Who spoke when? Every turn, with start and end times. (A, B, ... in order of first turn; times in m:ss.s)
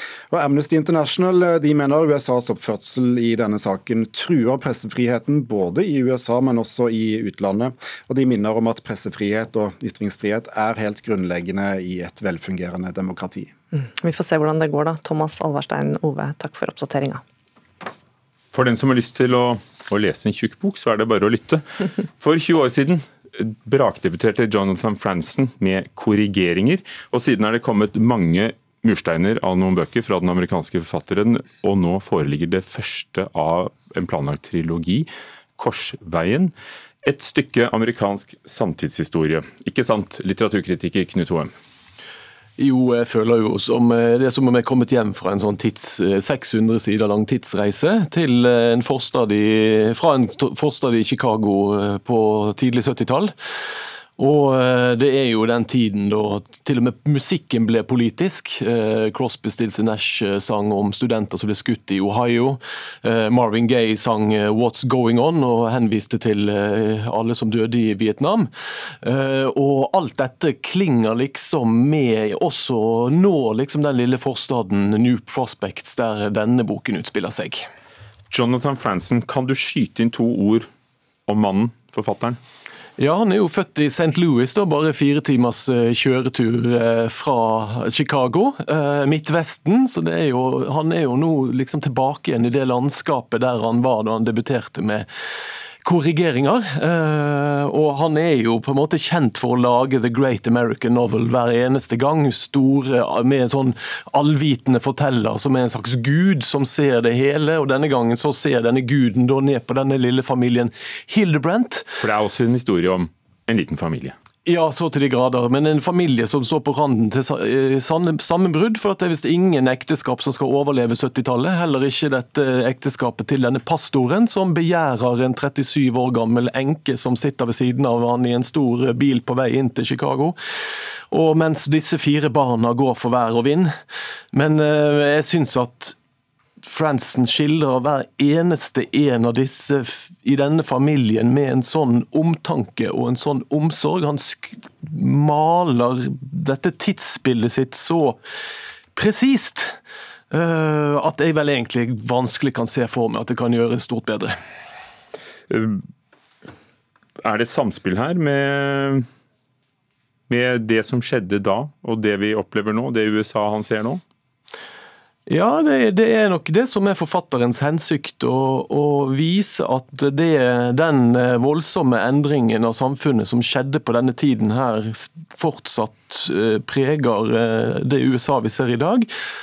0:00.3-0:13.5 A
0:13.7-0:17.2 B
0:18.5-0:21.6 C
0:22.2-0:41.5 C
0:42.6-0:53.3 D
0:54.2-1:08.5 D
1:09.0-1:17.6 D
1:18.3-1:20.7 C
1:21.3-1:22.4 C
1:23.0-1:35.0 D
1:35.8-1:51.9 D
1:52.0-1:54.1 C
1:54.4-2:10.4 D
2:11.1-2:13.7 D
2:14.3-2:15.9 D
2:16.6-2:28.2 D
2:28.9-2:29.8 D
2:30.3-2:34.3 D
2:35.5-2:35.8 C
2:37.2-2:39.0 C
2:40.3-2:44.0 C
2:45.3-2:59.1 D